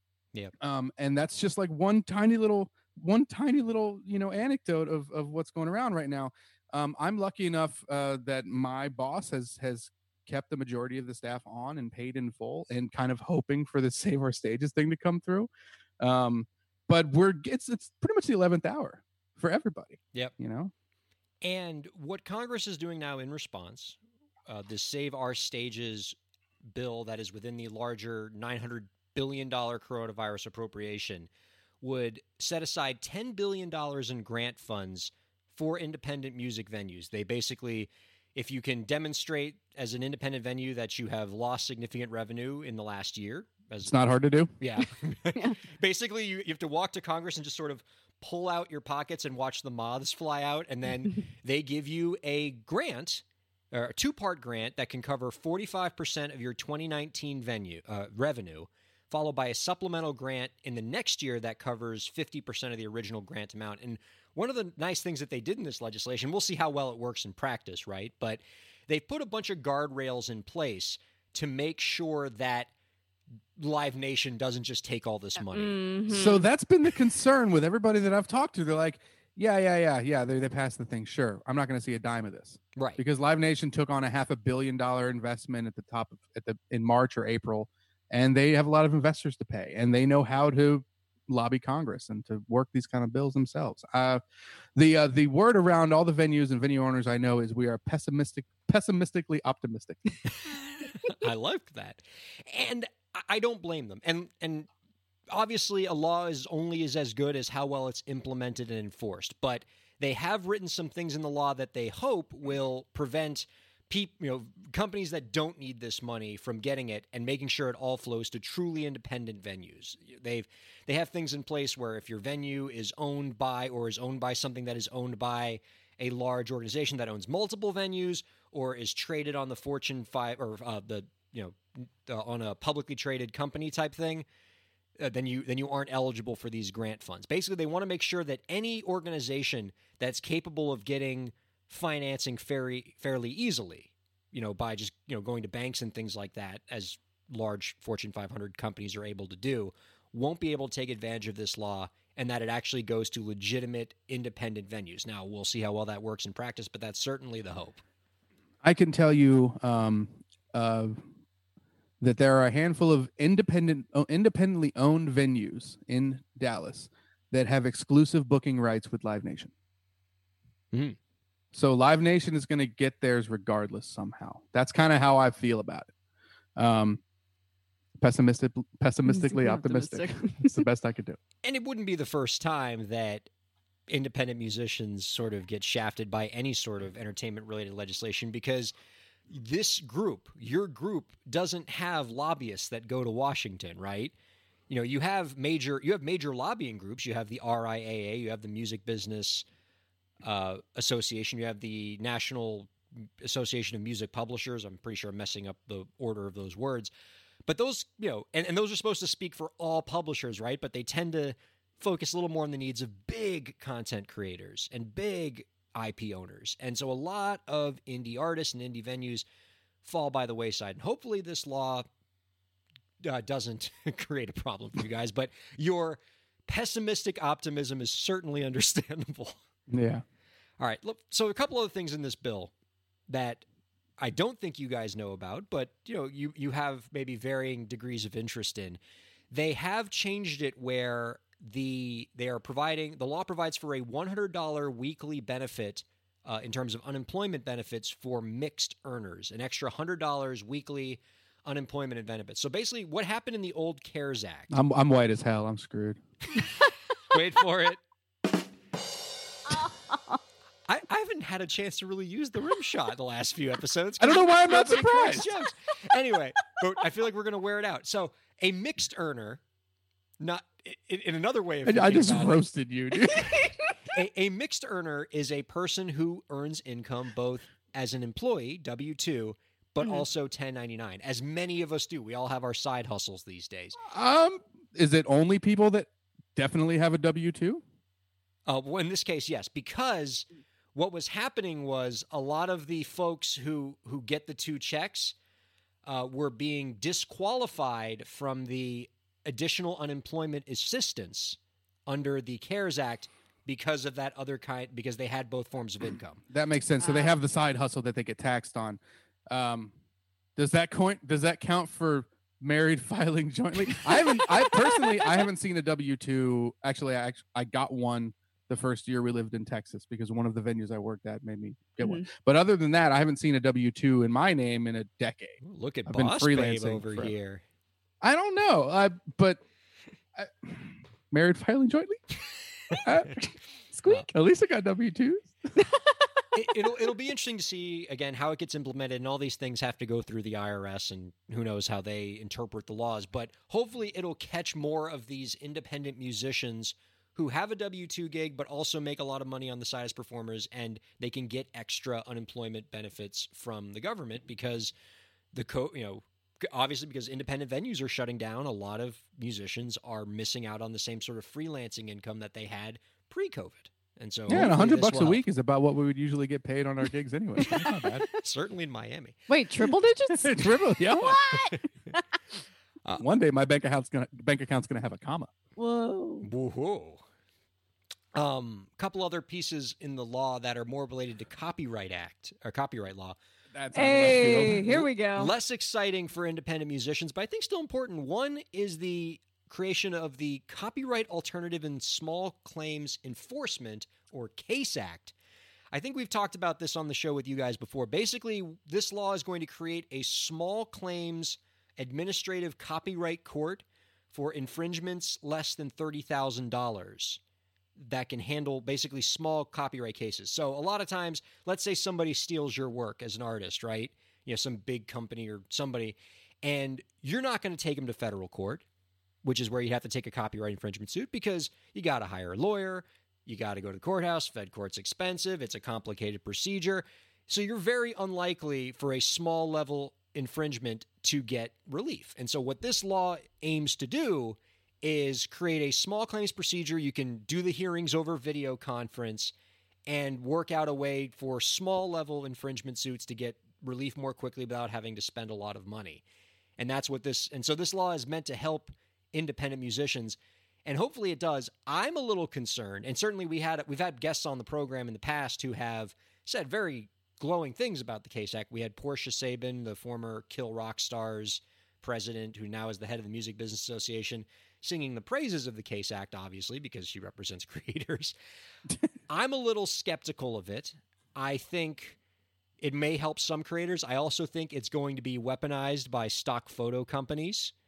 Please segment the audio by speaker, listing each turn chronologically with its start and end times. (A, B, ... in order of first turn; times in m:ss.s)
0:00.6-0:20.7 A
0:21.4-0:31.3 B
0:31.8-0:44.0 B
0:43.9-0:44.5 A
0:44.6-1:12.7 B
1:13.6-1:15.8 B
1:15.5-1:16.4 C
1:16.1-1:34.2 A
1:22.8-1:23.0 B
1:34.8-1:40.2 A
1:40.8-1:44.7 B
1:45.3-2:14.3 B
2:15.0-2:37.8 B
2:38.6-2:41.0 A
2:42.0-2:49.5 A
2:51.5-2:55.9 A
2:56.6-2:57.0 A
2:58.0-3:01.2 A
2:59.1-3:00.6 C
3:01.4-3:03.3 B
3:03.9-3:08.7 B
3:09.3-3:14.1 B
3:14.7-3:19.5 B
3:20.2-3:26.9 B
3:27.5-3:39.2 B
3:39.8-3:41.9 B
3:43.0-3:49.4 B
3:49.7-3:50.0 A
3:50.6-3:52.5 B
3:53.1-3:53.4 B
3:54.0-3:58.8 B
3:59.3-4:14.5 B
4:14.5-4:16.0 A
4:17.1-4:17.8 B
4:19.7-4:20.2 C
4:20.7-4:29.4 B
4:24.0-4:25.3 A
4:30.2-4:32.4 B
4:31.7-4:33.5 A
4:33.1-4:33.7 C
4:33.9-4:43.8 B
4:43.8-4:47.6 A
4:48.5-4:55.2 B
4:55.8-5:06.2 B
5:06.3-5:09.7 A
5:06.8-5:07.2 C
5:10.4-5:27.1 A
5:13.7-5:15.3 C
5:21.8-5:22.1 C
5:25.4-5:27.4 B
5:28.0-5:29.4 A
5:30.2-5:32.0 A
5:32.7-5:33.1 B
5:32.8-5:33.3 A
5:33.7-5:34.1 C
5:34.1-5:35.4 A
5:35.6-5:36.0 C
5:36.3-5:54.7 B
5:55.3-6:05.2 B
6:04.3-6:08.1 A
6:07.5-6:08.2 C
6:07.5-6:09.2 B
6:09.3-6:12.0 C
6:10.1-6:11.2 A
6:11.3-6:11.6 B
6:13.0-6:15.3 A
6:15.6-6:16.3 C
6:16.2-6:17.0 B
6:18.1-6:23.2 B
6:23.5-6:24.8 A
6:23.7-6:25.3 C
6:24.4-6:35.1 B
6:35.7-6:47.2 B
6:47.8-6:58.6 B
6:59.2-7:19.3 B
7:19.9-7:26.0 B
7:26.6-7:48.1 B
7:49.1-7:52.0 B
7:52.6-7:57.5 B